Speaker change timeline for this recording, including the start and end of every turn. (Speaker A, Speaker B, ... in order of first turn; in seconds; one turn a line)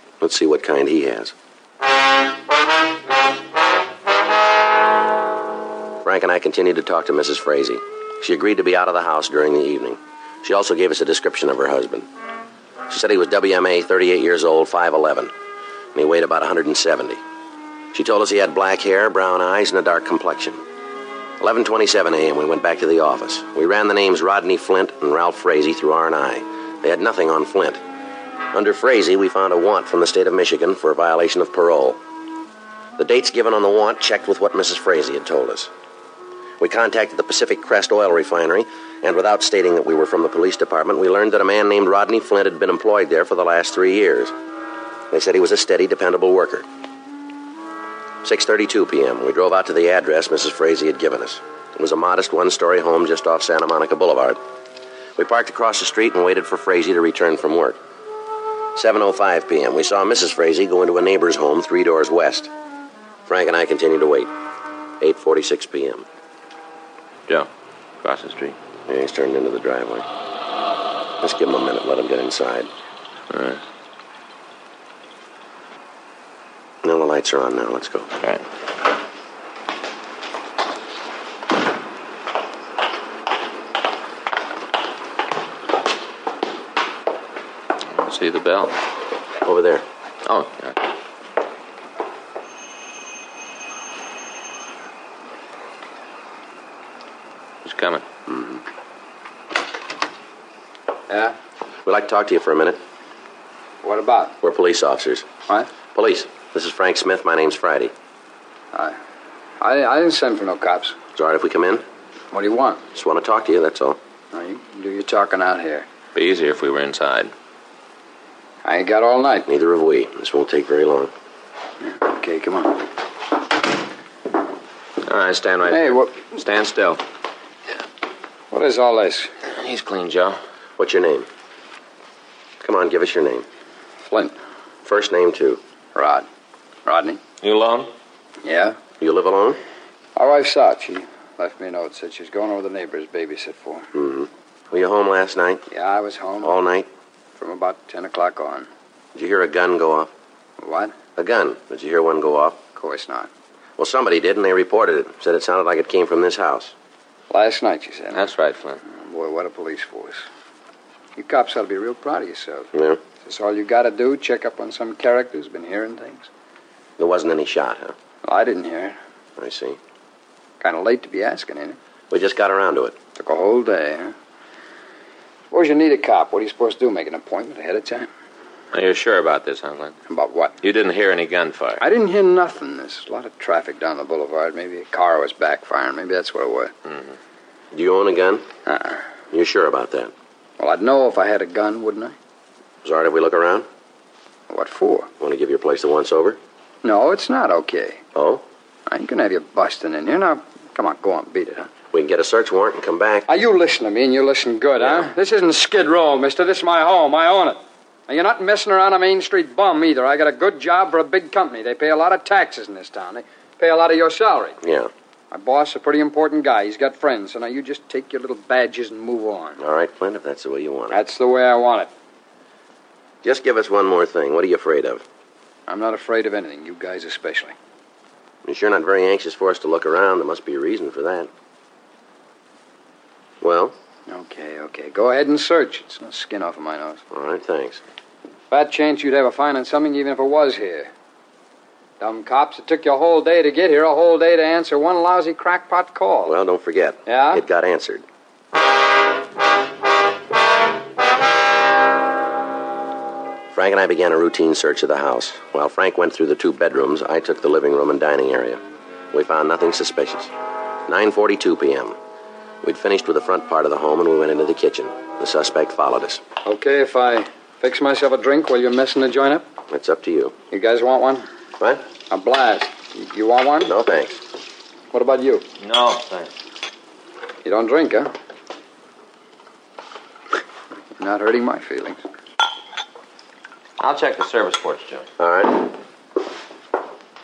Speaker A: 0.2-1.3
Speaker A: 6.0-12.1
Speaker A: 12.9-15.3
Speaker A: 15.9-17.2
Speaker A: 17.9-20.6
Speaker A: 21.4-27.8
Speaker A: 28.5-32.0
Speaker A: 33.0-35.7
Speaker A: 36.6-44.3
Speaker A: 45.1-46.6
Speaker A: 48.2-54.4
Speaker A: 55.2-57.8
Speaker A: 58.8-62.5
Speaker A: 63.3-64.3
Speaker A: 65.0-66.0
Speaker B: 68.0-68.5
Speaker A: 68.9-70.0
Speaker A: 71.2-72.7
Speaker B: 73.3-73.6
Speaker A: 76.8-78.1
Speaker B: 88.0-88.7
Speaker A: 89.4-89.8
Speaker B: 90.2-90.8
Speaker B: 97.6-98.0
Speaker A: 98.3-98.6
Speaker C: 101.1-101.3
Speaker A: 101.8-102.8
Speaker C: 103.8-104.4
Speaker A: 104.4-105.3
Speaker A: 105.9-107.9
Speaker C: 109.6-111.0
Speaker A: 111.2-111.8
Speaker C: 112.3-112.8
Speaker A: 112.9-114.0
Speaker C: 114.3-115.8
Speaker B: 116.1-117.3
Speaker C: 118.6-119.5
Speaker A: 119.5-121.1
Speaker C: 121.8-122.8
Speaker B: 125.0-127.0
Speaker C: 125.7-126.3
Speaker C: 128.5-129.3
Speaker B: 129.5-130.4
Speaker A: 130.8-131.3
Speaker A: 132.6-133.4
Speaker C: 134.0-134.3
Speaker A: 134.8-135.6
Speaker C: 135.9-136.2
Speaker C: 136.8-137.2
Speaker B: 137.4-137.9
Speaker C: 138.4-138.8
Speaker A: 139.0-139.6
Speaker C: 140.2-143.9
Speaker A: 143.9-145.6
Speaker C: 145.7-146.6
Speaker A: 146.4-146.9
Speaker C: 147.3-148.7
Speaker A: 149.1-150.1
Speaker C: 150.6-150.9
Speaker A: 151.2-152.6
Speaker C: 152.7-153.3
Speaker A: 153.8-156.7
Speaker C: 157.3-158.3
Speaker B: 158.1-158.8
Speaker C: 158.9-160.2
Speaker C: 161.2-162.7
Speaker A: 162.7-163.0
Speaker C: 163.2-166.3
Speaker A: 167.0-167.9
Speaker C: 168.2-169.0
Speaker A: 169.4-169.8
Speaker C: 170.6-171.8
Speaker A: 172.1-173.0
Speaker C: 173.2-174.1
Speaker C: 175.5-178.1
Speaker B: 178.7-179.9
Speaker C: 180.1-180.6
Speaker B: 180.6-181.8
Speaker C: 181.8-186.7
Speaker A: 187.7-188.4
Speaker C: 188.7-189.0
Speaker A: 189.3-190.1
Speaker C: 190.6-192.1
Speaker A: 192.8-193.7
Speaker C: 194.5-195.1
Speaker A: 195.2-196.4
Speaker C: 196.8-198.0
Speaker A: 198.2-198.4
Speaker C: 198.9-201.7
Speaker A: 201.9-203.3
Speaker C: 203.3-214.6
Speaker A: 204.8-205.1
Speaker A: 214.6-214.9
Speaker C: 215.3-219.6
Speaker A: 219.6-221.0
Speaker C: 220.9-221.9
Speaker A: 223.2-225.0
Speaker C: 225.7-227.5
Speaker A: 228.4-231.3
Speaker A: 233.4-233.7
Speaker C: 234.1-237.0
Speaker A: 237.1-237.8
Speaker C: 238.5-240.9
Speaker C: 242.0-246.3
Speaker A: 246.3-248.0
Speaker C: 247.1-247.4
Speaker A: 253.5-258.6
Speaker A: 259.1-260.3
Speaker A: 260.9-261.9
Speaker A: 262.6-266.2
Speaker C: 266.4-269.4
Speaker A: 269.7-270.3
Speaker C: 270.5-271.2
Speaker C: 272.1-273.7
Speaker A: 273.7-274.2
Speaker C: 274.9-275.4
Speaker B: 275.6-276.3
Speaker C: 277.4-278.1
Speaker C: 281.0-282.0
Speaker B: 283.8-285.1
Speaker A: 285.2-285.6